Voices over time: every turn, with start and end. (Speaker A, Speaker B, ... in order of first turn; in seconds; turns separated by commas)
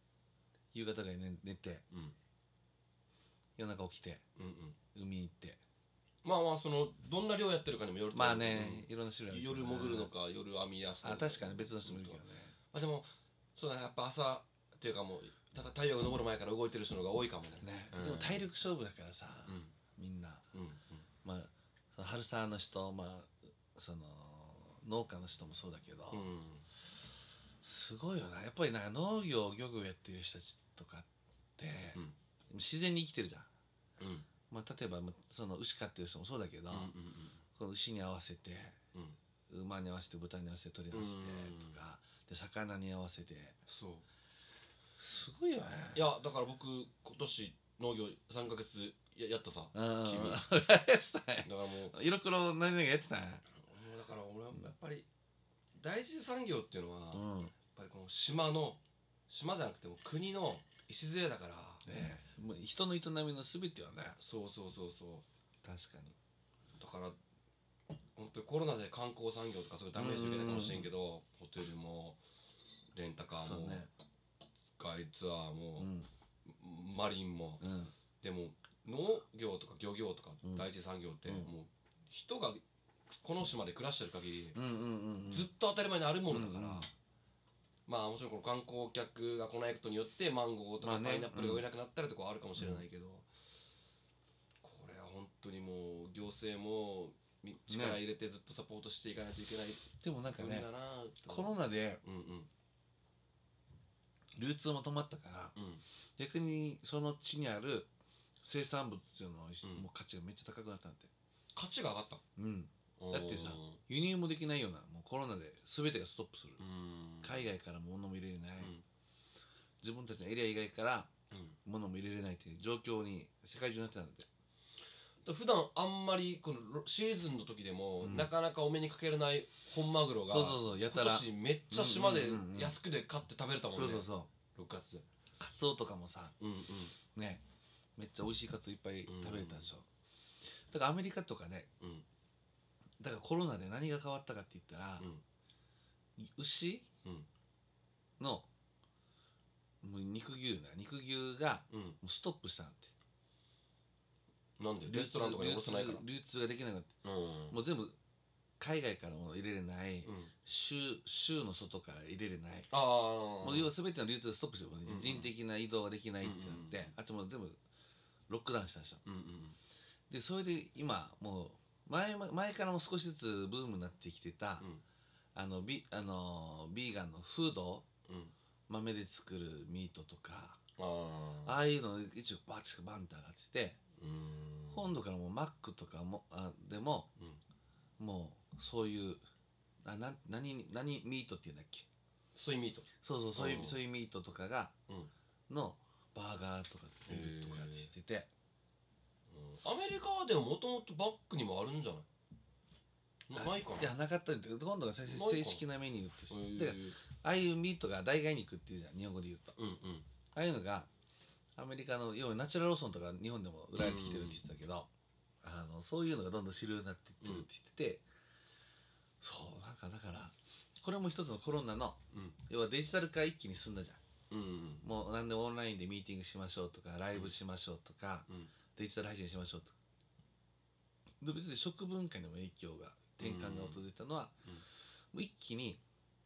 Speaker A: 0.7-1.9, Speaker B: 1.9-2.2, Speaker A: 3.6-4.2, Speaker B: 4.4-4.8, Speaker A: 4.9-5.6, Speaker B: 6.2-12.2, Speaker A: 8.1-10.1, Speaker A: 11.0-12.5, Speaker B: 12.7-18.5, Speaker A: 17.6-20.5, Speaker B: 19.5-19.7, Speaker B: 20.5-21.1, Speaker A: 21.2-26.3, Speaker B: 26.1-26.6, Speaker A: 27.6-33.5, Speaker B: 34.0-34.3, Speaker A: 34.5-36.9, Speaker B: 36.7-37.4, Speaker A: 37.5-38.8, Speaker A: 39.5-43.6, Speaker B: 40.9-41.8, Speaker B: 43.7-44.0, Speaker A: 45.0-46.1, Speaker B: 45.9-50.5, Speaker A: 49.7-53.4, Speaker B: 51.4-52.0, Speaker B: 53.6-55.1, Speaker B: 55.8-61.9, Speaker A: 57.1-57.5, Speaker A: 61.9-64.2, Speaker B: 64.2-65.2, Speaker A: 65.6-66.2, Speaker B: 66.8-67.2, Speaker B: 68.1-72.2, Speaker A: 69.9-70.9, Speaker B: 72.9-73.9, Speaker A: 73.3-73.9, Speaker B: 74.8-75.9, Speaker A: 75.8-76.1, Speaker B: 76.5-77.7, Speaker A: 77.6-77.9, Speaker B: 78.2-82.6, Speaker A: 80.4-80.7, Speaker A: 81.2-81.5, Speaker B: 83.2-84.6, Speaker A: 84.5-85.5, Speaker B: 85.3-86.9, Speaker A: 86.3-86.9, Speaker B: 87.9-93.3, Speaker A: 90.8-91.6, Speaker A: 92.6-92.8, Speaker B: 94.6-102.5, Speaker A: 97.7-98.0, Speaker A: 100.0-100.7, Speaker A: 101.2-102.0, Speaker A: 104.4-105.6, Speaker B: 105.6-105.8, Speaker A: 106.2-107.9, Speaker A: 108.4-111.1, Speaker B: 111.5-112.2, Speaker A: 112.4-116.6, Speaker B: 113.0-113.8, Speaker B: 116.6-117.4, Speaker A: 117.2-118.7, Speaker B: 118.6-118.8, Speaker A: 119.8-121.1, Speaker A: 121.6-124.3, Speaker B: 125.2-135.1, Speaker A: 128.0-128.3, Speaker A: 130.3-132.8, Speaker A: 133.7-134.3, Speaker A: 135.4-136.3, Speaker B: 136.4-137.0, Speaker A: 137.1-137.4, Speaker A: 138.0-139.9, Speaker B: 139.1-139.7, Speaker A: 140.7-141.7, Speaker B: 141.8-142.1, Speaker A: 143.0-145.1, Speaker A: 146.2-146.9, Speaker A: 148.2-148.5, Speaker A: 149.8-152.9, Speaker B: 151.7-152.0, Speaker B: 154.6-156.0, Speaker A: 154.9-156.9, Speaker B: 157.0-157.6, Speaker A: 157.5-158.0, Speaker A: 158.6-162.7, Speaker B: 160.0-160.3, Speaker B: 162.7-163.7, Speaker A: 163.4-167.6, Speaker B: 164.9-165.3, Speaker B: 166.2-166.9, Speaker A: 168.3-169.0, Speaker B: 169.1-169.6, Speaker A: 170.1-174.7, Speaker A: 175.3-177.9, Speaker B: 178.1-178.3, Speaker A: 178.7-180.6, Speaker B: 180.8-181.6, Speaker A: 181.4-183.8, Speaker B: 184.0-184.9, Speaker A: 184.7-187.1, Speaker A: 188.0-189.2, Speaker A: 189.8-191.9, Speaker B: 192.3-193.8, Speaker A: 193.0-194.7, Speaker A: 195.5-198.3, Speaker B: 197.1-197.9, Speaker B: 199.3-202.1, Speaker B: 203.3-203.9, Speaker A: 203.3-209.6, Speaker B: 205.1-205.6, Speaker B: 206.3-207.0, Speaker B: 209.6-210.1, Speaker A: 210.3-210.9, Speaker A: 211.6-214.9, Speaker B: 213.8-214.4, Speaker A: 215.4-218.1, Speaker B: 217.2-217.5, Speaker A: 219.2-224.0, Speaker B: 222.1-222.4, Speaker B: 224.3-224.9, Speaker A: 224.8-229.8, Speaker A: 231.2-234.4, Speaker B: 233.2-233.8, Speaker A: 235.1-235.8